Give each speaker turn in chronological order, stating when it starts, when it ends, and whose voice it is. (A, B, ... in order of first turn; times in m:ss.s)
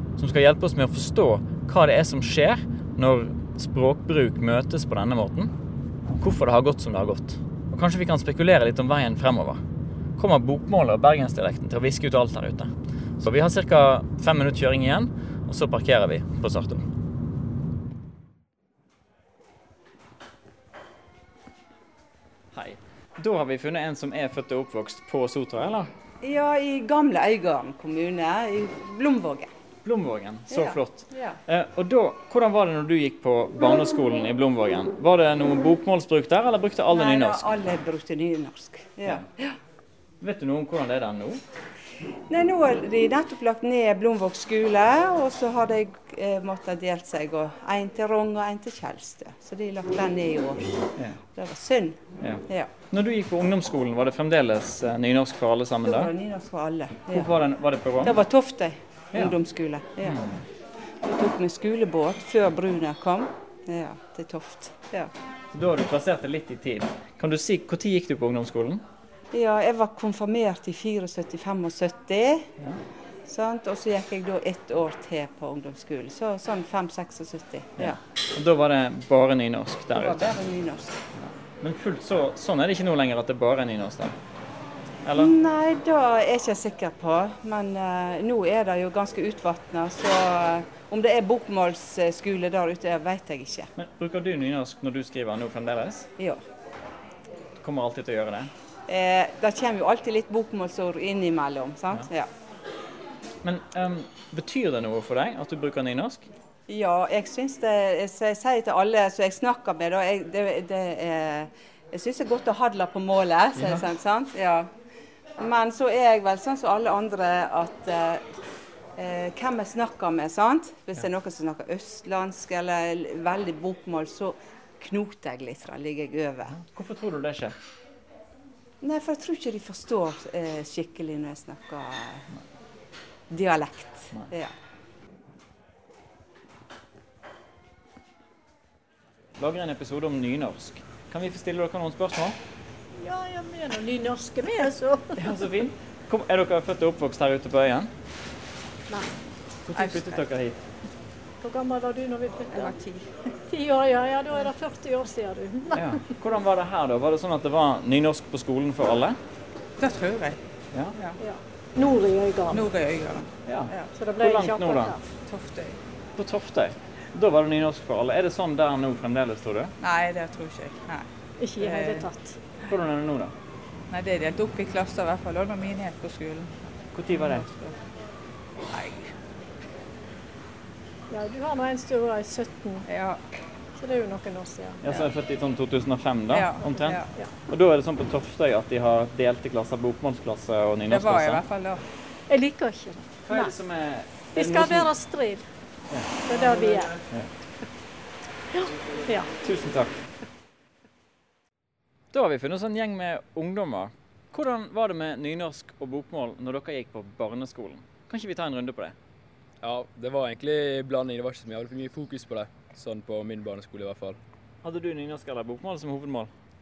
0:00.2-0:05.5 A
0:06.1-0:09.6 A
0:10.2-0:16.9 A
0:22.5-0:25.9 A
0:26.2-0:29.5 B
0:29.8-0:37.4 A
0:30.5-0:31.4 B
0:36.9-0:39.6 B
0:40.2-0:41.4 A
0:42.3-0:52.7 B
0:51.0-0:51.2 A
0:52.2-0:56.1 A
0:55.8-0:57.3 B
0:57.1-0:58.2 A
0:58.0-1:00.2 B
1:00.0-1:00.4 A
1:00.9-1:05.1 B
1:05.5-1:08.8 A
1:09.3-1:12.5 B
1:13.3-1:18.0 B
1:17.8-1:20.4 A
1:19.9-1:21.0 B
1:21.2-1:24.2 A
1:25.0-1:25.4 A
1:25.2-1:33.7 B
1:33.8-1:36.1 A
1:36.2-1:36.4 B
1:37.6-1:38.5 A
1:38.9-1:42.3 B
1:43.4-1:46.3 A
1:46.7-1:54.7 B
1:53.6-1:53.8 A
1:55.4-1:58.3 B
1:59.0-2:06.6 B
2:06.5-2:07.6 A
2:08.8-2:12.3 B
2:13.3-2:14.5 B
2:19.4-2:22.4 A
2:23.0-2:25.3 C
2:25.2-2:27.9 A
2:29.7-2:30.6 A
2:29.8-2:30.2 D
2:31.4-2:32.8 C
2:32.5-2:33.1 D
2:33.5-2:36.1 C
2:35.7-2:39.2 A
2:39.8-2:40.4 D
2:41.2-2:42.7 C
2:42.5-2:43.9 D
2:43.4-2:45.0 A
2:43.9-2:45.0 C
2:45.2-2:45.8 D
2:46.2-2:49.7 A
2:49.8-2:52.1 D
2:51.4-2:52.4 C
2:52.7-2:53.3 A
2:53.9-2:57.8 D
2:56.9-2:57.5 A
2:58.7-2:59.1 D
3:01.1-3:02.9 C
3:02.9-3:03.2 D
3:03.8-3:04.8 C
3:04.8-3:11.4 A
3:06.3-3:07.1 D
3:10.9-3:11.8 D
3:12.3-3:13.5 C
3:13.2-3:15.0 A
3:14.3-3:15.5 C
3:15.9-3:17.3 A
3:16.2-3:17.0 C
3:18.5-3:19.4 C
3:19.4-3:20.1 A
3:22.1-3:29.0 A
3:29.6-3:34.2 E
3:34.6-3:36.3 A